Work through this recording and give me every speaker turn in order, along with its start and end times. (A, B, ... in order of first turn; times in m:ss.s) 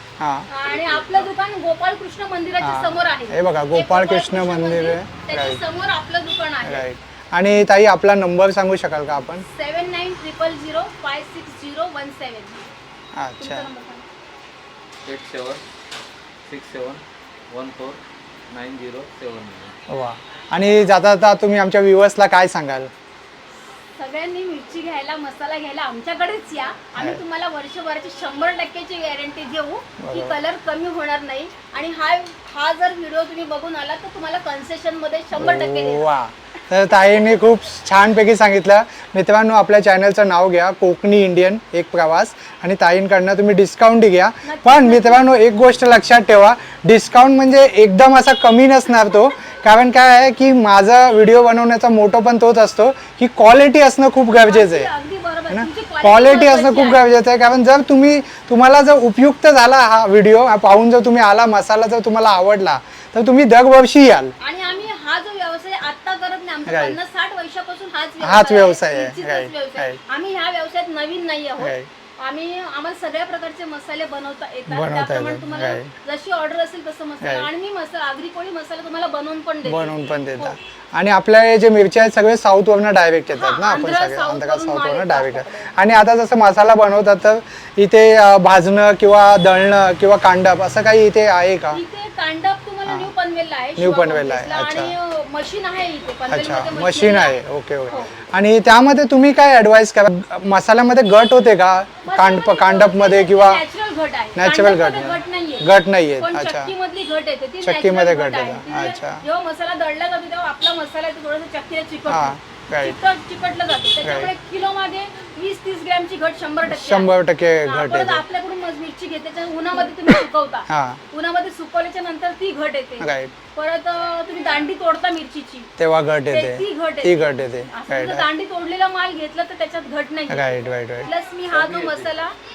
0:00.2-0:00.5 A
0:00.5-0:06.8 B
0:02.6-0:05.6 A
0:06.6-0:09.4 A
0:09.4-0:12.7 B
0:13.1-0:13.7 A
0:13.4-0:14.0 B
0:15.0-0:15.6 C
0:16.4-0:19.8 C
0:19.9-0:22.9 A
0:24.0-0:36.0 B
0:27.0-0:27.2 A
0:30.0-0:30.4 A
0:35.3-0:54.9 A
0:44.4-0:45.3 B
0:54.4-0:57.0 B
0:55.5-1:04.3 A
1:04.4-1:20.6 B
1:06.7-1:07.0 A
1:08.2-1:10.0 A
1:11.6-1:11.9 A
1:14.7-1:15.9 A
1:17.2-1:17.5 A
1:19.6-1:31.8 A
1:23.3-1:25.7 B
1:31.7-1:38.1 B
1:32.8-1:33.1 A
1:33.8-1:34.9 A
1:36.3-1:43.6 A
1:42.0-1:45.6 B
1:44.3-1:46.7 A
1:46.2-1:57.1 B
1:47.6-1:49.2 A
1:52.1-1:53.0 A
1:54.0-1:54.3 A
1:56.6-1:58.2 A
1:57.6-2:05.7 B
2:00.7-2:01.0 A
2:03.0-2:03.3 A
2:05.8-2:08.2 A
2:06.3-2:12.3 B
2:10.3-2:11.1 A
2:11.5-2:12.1 C